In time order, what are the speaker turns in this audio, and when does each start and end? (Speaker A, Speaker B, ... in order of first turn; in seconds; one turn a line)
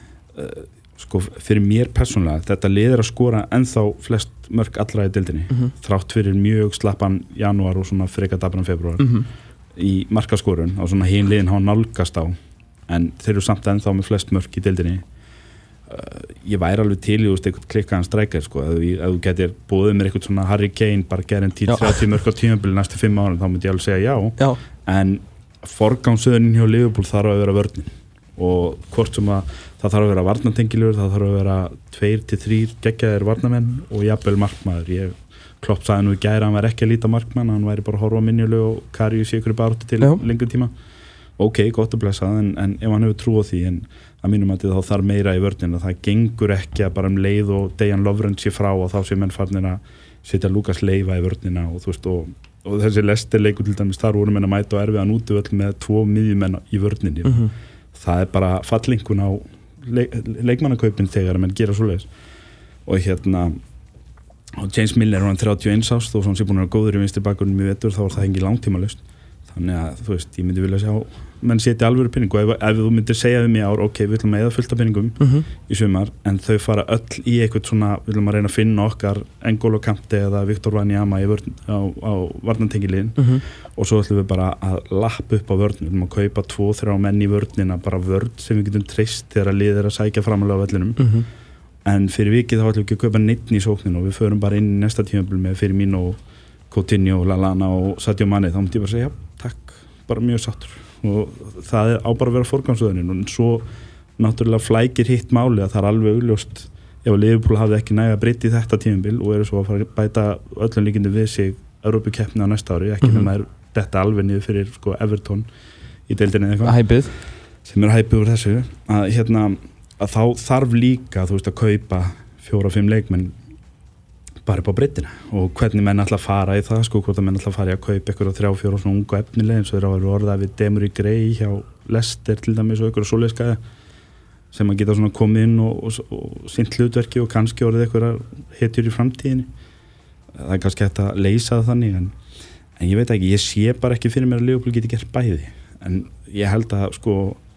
Speaker A: 0.3-9.2
Speaker B: 9.0-9.3
Speaker A: 9.8-12.3
Speaker A: 12.9-15.0
Speaker A: 15.9-40.7
Speaker B: 21.7-22.0
Speaker A: 41.4-62.1
Speaker B: 57.2-57.5
Speaker A: 62.9-63.6
Speaker A: 64.6-91.1
Speaker B: 75.2-75.5
Speaker B: 83.2-83.4
Speaker B: 91.0-91.3
Speaker A: 91.8-96.2
Speaker A: 96.7-103.7
Speaker A: 104.2-115.5
Speaker B: 113.0-113.3
Speaker A: 116.1-116.9
Speaker B: 116.6-117.1
Speaker A: 117.6-123.3
Speaker A: 124.5-133.6
Speaker A: 134.5-139.5
Speaker A: 140.4-142.1
Speaker A: 142.8-147.4